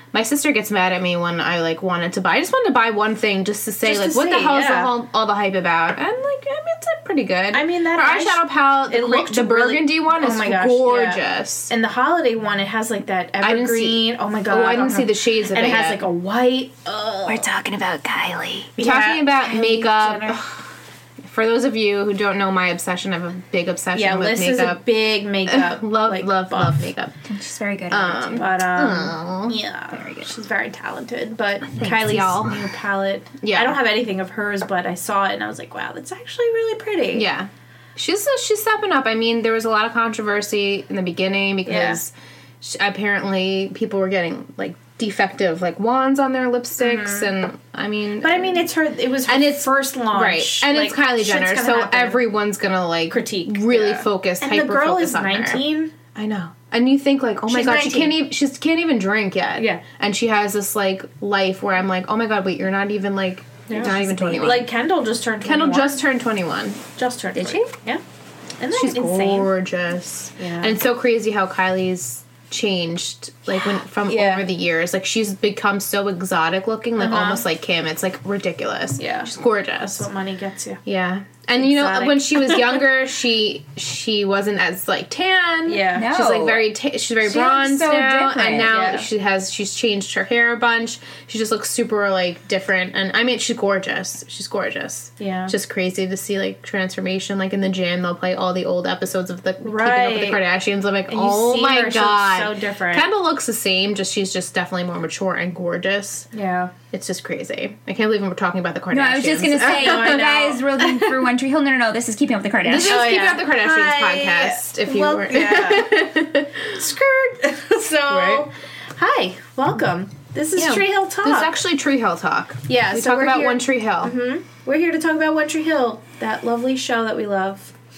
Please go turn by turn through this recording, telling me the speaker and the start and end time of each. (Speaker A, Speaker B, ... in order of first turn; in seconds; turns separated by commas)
Speaker A: 0.1-11.7, Speaker B: 3.8-4.9, Speaker B: 7.5-17.5, Speaker A: 13.4-16.0, Speaker A: 17.3-20.7, Speaker B: 18.8-20.4, Speaker A: 21.2-24.8, Speaker B: 23.9-26.9, Speaker A: 25.4-27.1, Speaker C: 27.2-28.5, Speaker A: 27.9-29.6, Speaker B: 28.4-37.3, Speaker C: 29.9-30.3, Speaker A: 31.7-32.7, Speaker A: 33.4-33.8, Speaker A: 37.1-48.6, Speaker B: 41.6-42.0, Speaker B: 46.8-47.3, Speaker B: 48.2-52.2, Speaker A: 49.3-55.6, Speaker B: 53.1-55.9, Speaker A: 56.1-64.7, Speaker B: 57.5-58.2, Speaker B: 59.6-59.8, Speaker B: 63.7-66.0, Speaker C: 63.8-64.5, Speaker A: 65.4-66.8, Speaker B: 67.0-68.0, Speaker C: 67.3-67.7, Speaker B: 68.6-69.5, Speaker A: 68.7-80.1, Speaker B: 70.4-70.8, Speaker B: 73.5-74.5, Speaker B: 77.0-77.4, Speaker B: 79.0-80.8, Speaker A: 80.8-106.3, Speaker B: 81.6-82.8, Speaker B: 85.7-86.1, Speaker C: 85.9-86.7, Speaker C: 87.2-88.7, Speaker B: 88.6-89.1, Speaker B: 95.2-95.5, Speaker B: 99.6-100.4, Speaker B: 101.1-103.0, Speaker B: 106.3-106.7, Speaker A: 106.9-110.4, Speaker C: 108.9-113.1, Speaker B: 109.6-110.6, Speaker A: 112.7-116.8, Speaker B: 112.8-116.1, Speaker B: 116.7-121.5, Speaker A: 118.1-118.5, Speaker A: 120.5-124.1, Speaker B: 122.7-127.7